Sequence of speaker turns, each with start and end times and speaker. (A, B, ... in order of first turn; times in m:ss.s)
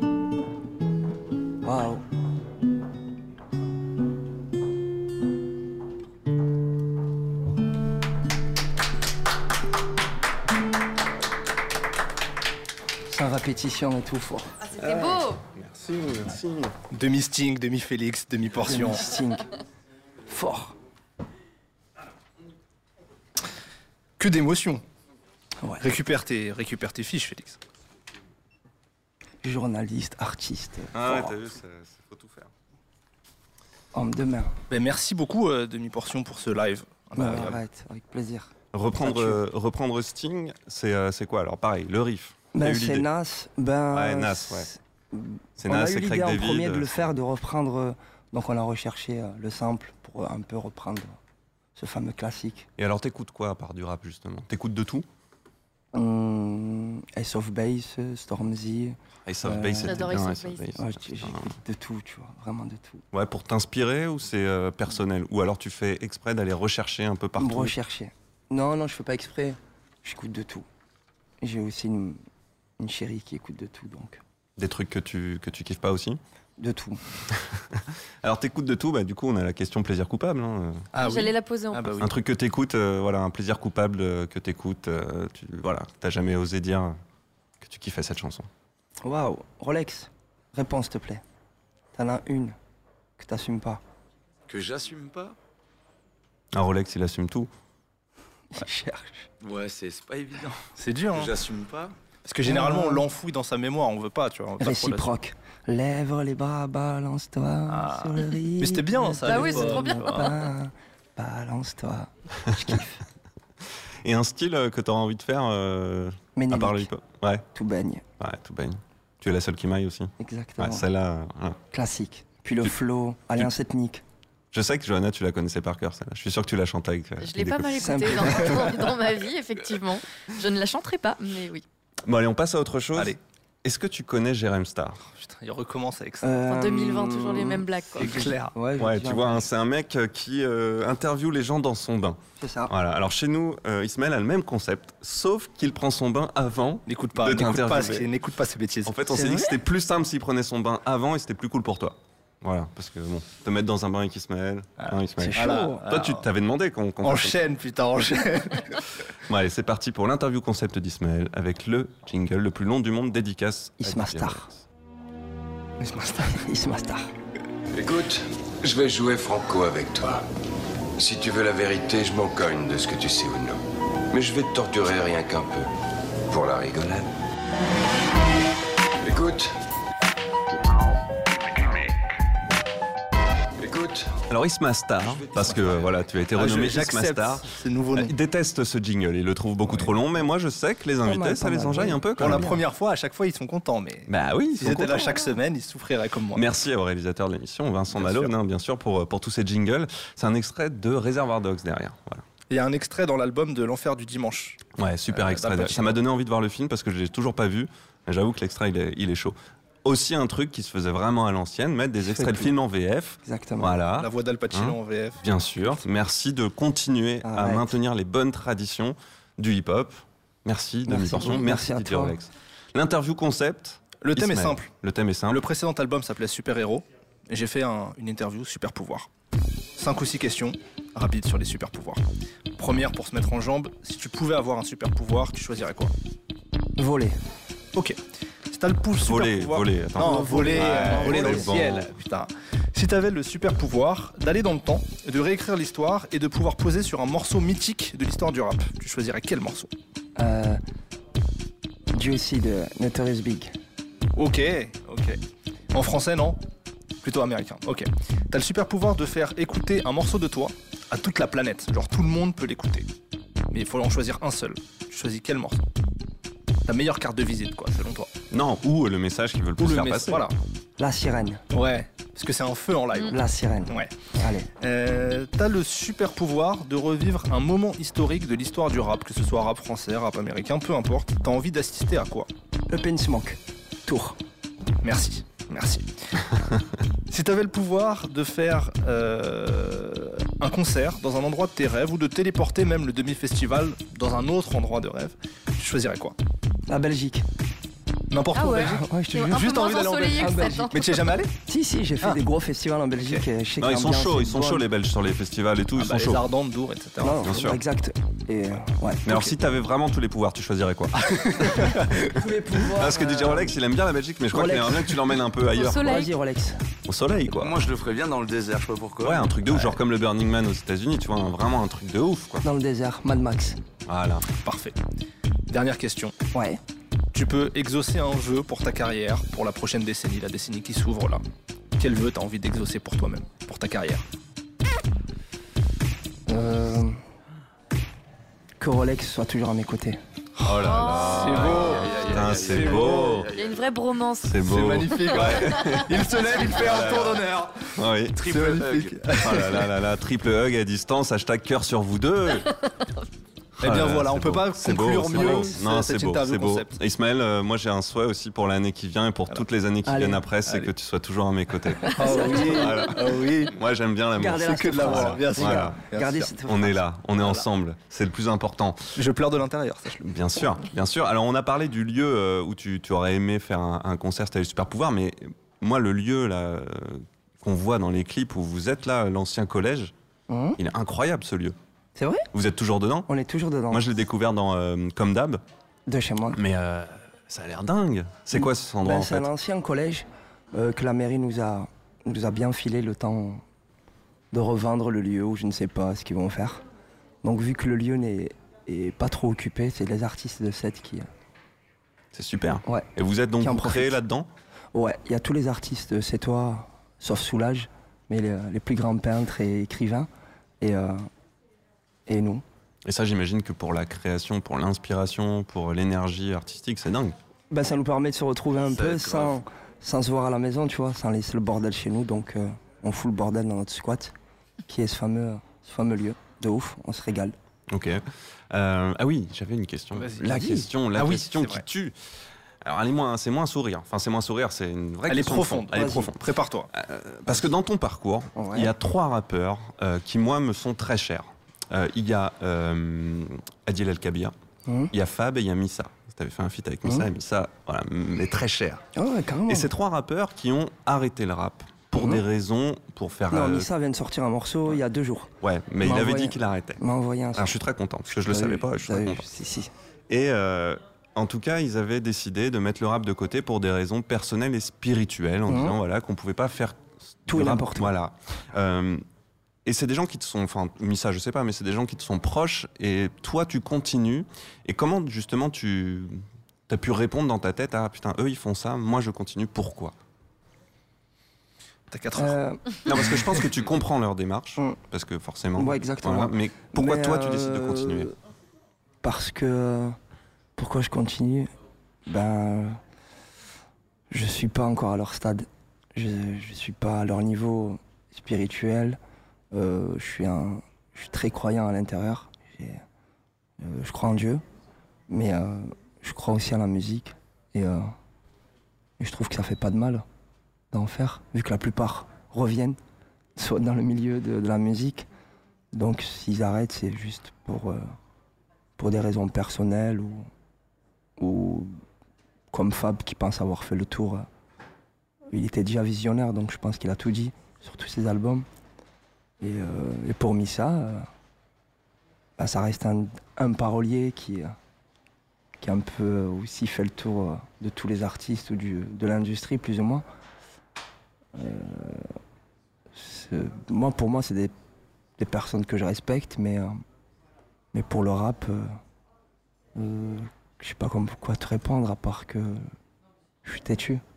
0:01.6-0:02.0 A
0:13.1-0:14.5 A
0:14.6-0:15.4 B
0:14.8-0:16.7 C
0:16.9-0:19.1 D
0:18.6-0:19.5 A
0:20.3-0:20.8 A
0:24.2-0:24.8 D
0:25.6-0:25.9 A
0:25.8-0:27.6 D
0:29.4-0:31.4 A
0:30.9-0:32.5 C
0:33.9-0:34.6 A
0:34.7-0:37.6 D
0:37.2-0:39.4 A
0:38.7-0:43.1 C
0:42.6-0:51.2 A
0:43.9-0:44.7 C
0:45.6-0:47.1 C
0:51.8-0:52.7 A
0:52.8-0:55.1 C
0:55.9-1:00.2 A
0:59.3-1:01.6 C
0:59.8-1:00.8 B
1:00.8-1:03.0 A
1:03.1-1:07.7 C
1:07.4-1:10.7 A
1:11.4-1:12.2 A
1:12.8-1:14.2 A
1:14.6-1:16.2 C
1:16.6-1:17.0 A
1:17.7-1:20.9 C
1:20.9-1:22.1 D
1:21.0-1:22.0 B
1:22.0-1:27.0 C
1:27.6-1:28.5 C
1:29.0-1:31.2 A
1:32.0-1:32.6 A
1:33.2-1:33.8 A
1:34.5-1:35.4 E
1:36.5-1:37.5 C
1:38.5-1:39.3 A
1:39.4-1:40.6 E
1:40.8-1:41.3 D
1:41.1-1:42.0 E
1:42.2-1:45.1 D
1:42.4-1:43.0 A
1:44.6-1:53.0 A
1:47.7-1:50.3 D
1:49.2-1:50.4 B
1:54.0-1:57.5 C
1:56.4-1:56.9 A
1:57.5-1:58.0 A
1:58.2-2:01.6 C
2:00.2-2:00.8 A
2:01.7-2:04.0 A
2:04.5-2:08.6 C
2:07.2-2:11.6 B
2:07.8-2:08.7 A
2:12.1-2:15.0 C
2:15.1-2:16.3 D
2:16.2-2:17.7 A
2:16.4-2:18.3 B
2:18.0-2:18.5 D
2:18.4-2:19.4 A
2:18.8-2:28.1 C
2:22.4-2:22.7 A
2:26.9-2:29.0 D
2:28.9-2:37.4 C
2:29.1-2:29.6 A
2:34.8-2:36.3 D
2:35.2-2:35.8 A
2:37.0-2:38.8 D
2:39.3-2:44.6 C
2:43.8-2:44.5 A
2:45.8-2:46.4 D
2:46.2-2:47.1 A
2:47.7-2:50.2 F
2:51.0-2:53.6 F
2:54.1-2:55.7 F
2:56.3-2:57.1 F
2:59.0-2:59.5 F
3:01.6-3:01.8 F
3:03.6-3:04.2 F
3:04.3-3:12.6 C
3:05.3-3:05.8 E
3:06.4-3:08.1 D
3:11.0-3:12.6 A
3:12.2-3:16.4 D
3:14.1-3:15.3 C
3:16.4-3:22.2 C
3:17.9-3:18.3 D
3:22.5-3:26.0 D
3:24.8-3:45.4 C
3:32.0-3:32.5 A
3:33.2-3:33.8 A
3:34.0-3:35.2 D
3:37.2-3:37.8 A
3:40.9-3:42.2 A
3:44.0-3:44.7 D
3:45.3-3:49.1 D
3:49.8-3:52.0 D
3:52.6-3:55.9 D
3:56.8-3:57.2 A
3:58.5-4:09.7 D
3:59.0-4:01.9 C
4:00.3-4:01.5 A
4:10.2-4:10.6 A
4:11.9-4:13.6 A
4:14.2-4:15.2 D
4:15.7-4:16.4 D
4:17.0-4:22.9 D
4:23.5-4:25.7 D
4:26.7-4:28.1 D
4:28.3-4:30.3 C
4:29.6-4:30.4 D
4:30.8-4:31.4 A
4:31.5-4:33.9 D
4:33.1-4:34.5 A
4:34.6-4:42.3 D
4:42.7-4:44.2 A
4:44.8-4:45.9 D
4:47.1-4:56.2 D
4:56.7-4:57.3 A
4:58.1-5:01.3 D
4:58.4-5:01.0 B
4:58.7-4:59.4 A
5:00.2-5:00.8 A
5:01.5-5:04.7 A
5:03.0-5:03.2 D
5:03.6-5:06.2 C
5:05.8-5:07.4 D
5:07.0-5:09.0 A
5:07.2-5:07.6 C
5:09.1-5:12.0 C
5:09.1-5:09.3 D
5:11.0-5:12.1 D
5:12.1-5:13.6 A
5:12.7-5:16.1 C
5:14.3-5:15.0 A
5:15.5-5:16.1 B
5:15.7-5:16.6 A
5:16.9-5:17.6 C
5:17.4-5:19.6 E
5:19.0-5:22.4 C
5:22.4-5:23.6 A
5:23.9-5:24.3 C
5:24.4-5:24.8 D
5:25.5-5:26.1 D
5:26.3-5:26.6 A
5:27.1-5:31.2 D
5:31.8-5:34.0 D
5:36.3-5:37.0 A
5:38.6-5:40.0 A
5:40.4-5:43.3 C
5:40.6-5:42.2 B
5:41.0-5:43.2 D
5:41.4-5:43.6 E
5:43.3-5:44.4 B
5:44.2-5:47.2 C
5:44.4-5:49.7 D
5:45.3-5:45.8 B
5:47.8-5:48.5 C
5:48.3-5:49.0 E
5:49.1-5:52.5 C
5:52.4-5:53.0 B
5:53.6-5:56.8 D
5:53.6-6:05.8 C
5:59.9-6:00.2 A
6:01.9-6:03.6 D
6:02.0-6:02.8 A
6:04.2-6:06.8 A
6:04.4-6:06.3 D
6:06.4-6:08.9 C
6:09.0-6:10.1 D
6:10.0-6:19.9 C
6:20.3-6:20.6 A
6:20.6-6:21.6 C
6:22.0-6:22.3 A
6:22.3-6:23.1 C
6:23.1-6:23.8 A
6:23.7-6:25.4 C
6:25.9-6:26.4 A
6:26.3-6:29.3 C
6:28.3-6:33.4 A
6:34.3-6:36.6 A
6:37.2-6:41.1 A
6:42.1-6:44.3 C
6:42.7-6:44.0 A
6:44.7-6:50.1 A
6:50.6-6:51.1 A
6:52.1-6:52.4 A
6:52.8-6:57.2 C
6:57.5-7:04.1 A
7:04.7-7:07.4 A
7:07.7-7:12.0 C
7:10.0-7:11.6 D
7:10.2-7:10.7 A
7:12.6-7:24.3 C
7:15.1-7:16.7 D
7:15.7-7:16.1 A
7:18.4-7:18.7 A
7:24.7-7:24.9 A
7:24.9-7:28.8 C
7:29.0-7:29.7 A
7:29.5-7:33.7 C
7:32.0-7:32.2 A
7:33.3-7:37.5 A
7:35.4-7:36.8 C
7:37.4-7:39.2 C
7:38.1-7:39.7 A
7:40.1-7:49.0 C
7:45.5-7:45.8 A
7:47.3-7:47.9 A
7:49.7-8:00.0 C
8:01.9-8:02.4 D
8:02.2-8:02.6 A
8:02.9-8:08.1 C
8:05.6-8:08.1 A
8:09.0-8:10.0 A
8:10.6-8:11.5 A
8:12.1-8:12.8 A
8:14.1-8:19.0 A
8:19.5-8:22.8 A
8:23.6-8:24.4 A
8:25.1-8:27.9 A
8:29.0-8:30.0 A
8:30.7-8:32.8 A
8:33.4-8:35.1 A
8:35.7-8:37.8 A
8:38.8-8:40.3 A
8:41.2-8:41.8 A
8:42.5-8:44.3 A
8:45.3-8:48.5 A
8:49.4-8:51.1 A
8:52.4-8:54.6 A
8:55.6-9:00.0 A
9:01.3-9:02.1 A
9:02.9-9:04.5 A
9:05.2-9:06.8 A
9:07.7-9:08.8 A
9:09.8-9:12.6 A
9:13.4-9:14.0 A